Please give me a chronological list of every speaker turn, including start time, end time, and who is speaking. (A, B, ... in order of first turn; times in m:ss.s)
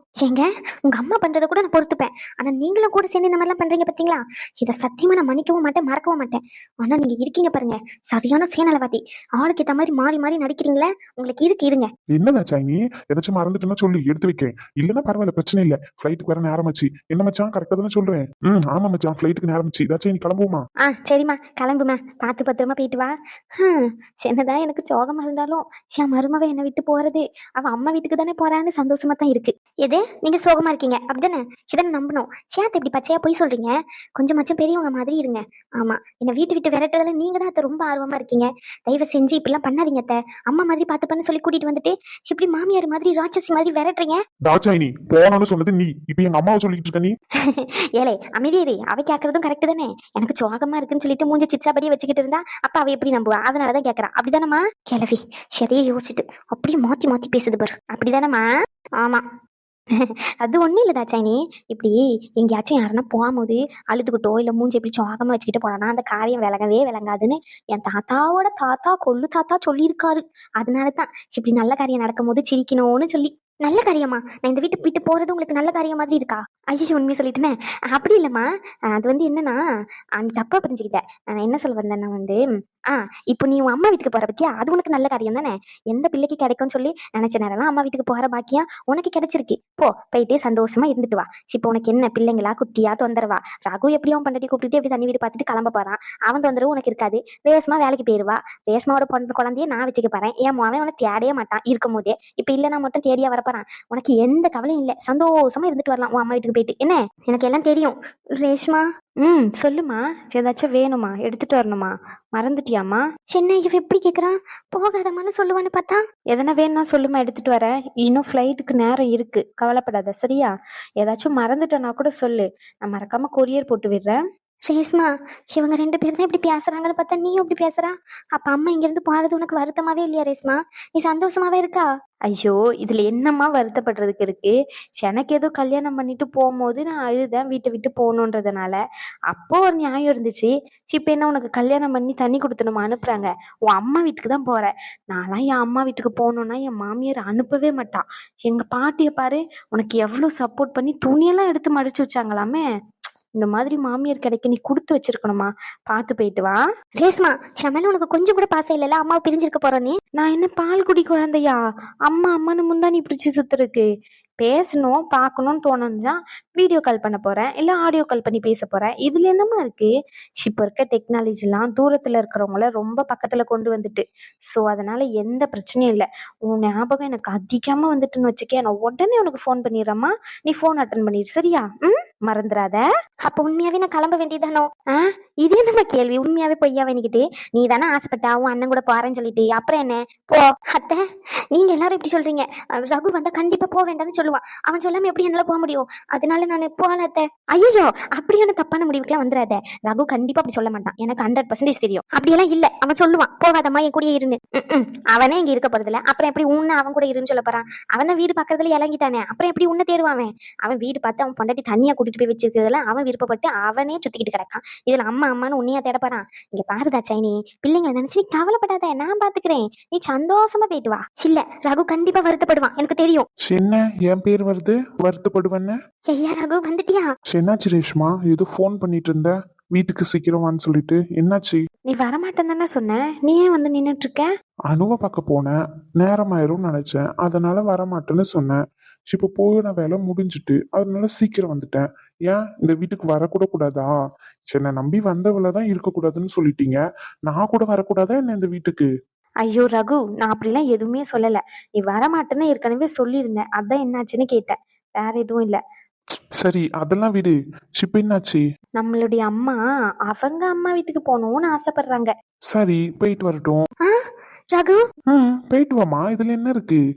0:00.2-0:11.9 A
0:12.1-0:20.6 B
0:20.9-0:44.2 A
0:44.4-0:47.1 B
0:47.5-0:58.4 A
0:59.0-0:59.2 A
1:00.4-1:19.6 A
1:20.2-1:22.4 A
1:23.3-1:48.8 A
1:49.2-1:53.0 C
1:53.3-1:56.0 A
1:56.3-2:04.2 C
2:04.7-2:11.9 A
2:12.3-2:18.8 C
2:19.3-2:32.6 C
2:33.4-2:36.6 C
2:37.0-2:39.9 A
2:40.2-2:43.9 C
2:44.4-2:49.9 C
2:50.4-3:02.8 C
3:03.2-3:43.2 A
3:43.4-3:45.8 B
3:46.1-3:47.1 A
3:47.3-3:51.6 B
3:51.9-3:54.3 C
3:54.7-4:03.9 B
4:04.5-4:08.9 B
4:09.4-4:15.6 C
4:16.4-4:18.4 B
4:18.8-4:19.6 C
4:20.1-4:22.1 C
4:22.5-4:23.6 B
4:23.8-4:24.8 A
4:25.1-4:26.8 B